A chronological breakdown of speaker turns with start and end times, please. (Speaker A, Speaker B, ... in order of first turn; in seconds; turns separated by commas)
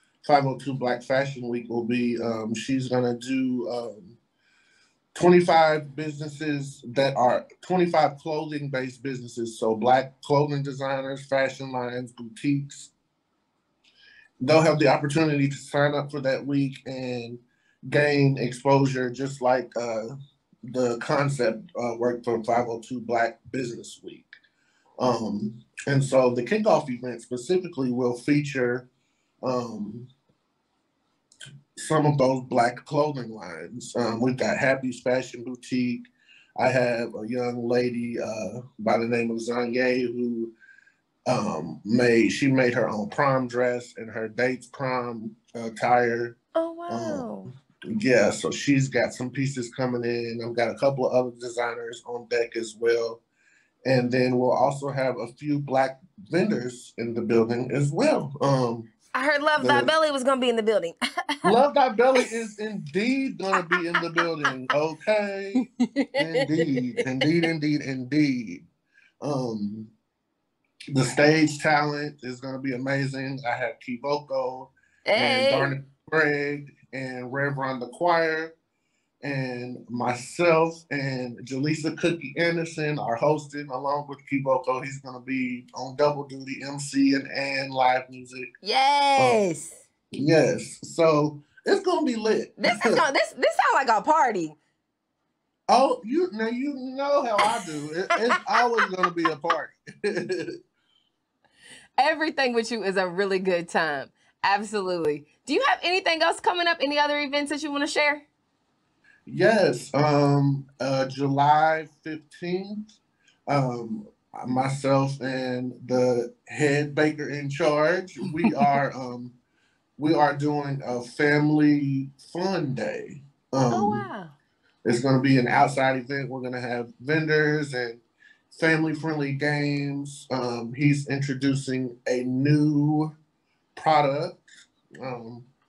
Speaker A: 0.2-4.2, Speaker A: 5.1-12.9, Speaker A: 14.4-20.1, Speaker A: 20.7-24.3, Speaker A: 25.0-28.9, Speaker A: 29.4-30.1, Speaker A: 31.8-40.5, Speaker A: 41.3-46.4, Speaker B: 46.5-47.5, Speaker A: 46.9-47.3, Speaker A: 47.9-53.2, Speaker A: 53.9-58.9, Speaker B: 59.1-61.5, Speaker A: 59.6-59.9, Speaker A: 61.4-68.7, Speaker B: 63.6-64.0, Speaker B: 65.6-67.0, Speaker A: 69.2-69.9, Speaker A: 70.9-78.5, Speaker B: 75.1-75.7, Speaker A: 79.2-88.5, Speaker B: 88.6-89.8, Speaker A: 90.2-93.0, Speaker B: 92.6-94.6, Speaker A: 95.7-100.6, Speaker B: 102.0-108.2, Speaker A: 109.3-112.9, Speaker A: 113.5-119.3, Speaker A: 120.0-124.1, Speaker B: 123.7-124.3, Speaker A: 124.8-133.1, Speaker A: 133.8-134.4, Speaker A: 135.0-135.5